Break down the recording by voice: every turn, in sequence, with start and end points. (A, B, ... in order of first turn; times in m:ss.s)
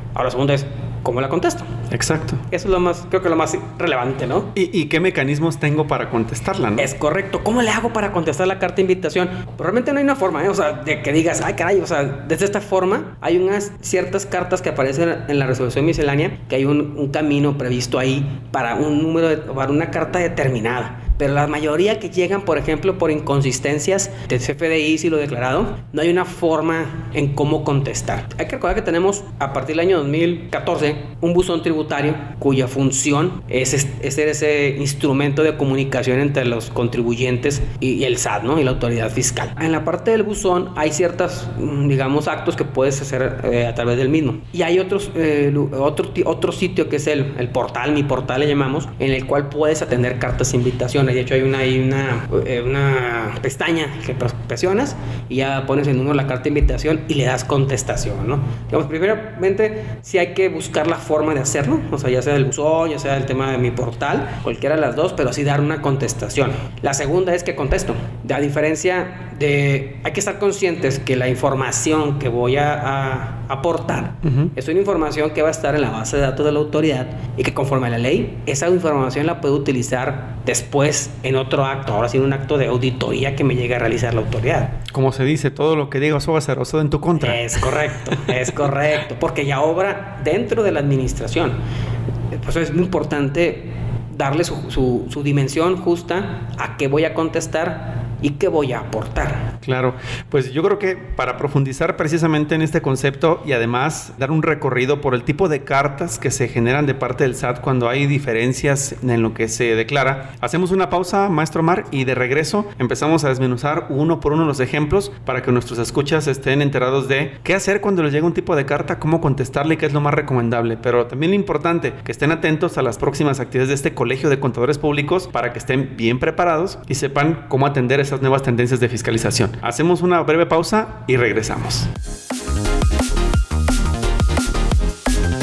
0:00.2-0:01.8 A
0:01.9-0:02.4 B
0:02.5-0:04.5 A
0:04.6-0:06.9 B
0:06.8-1:24.8 A
1:14.2-1:14.5 B
1:24.9-1:28.6 B
1:27.2-1:31.6 A
1:32.3-1:39.6 A
1:39.6-2:11.9 B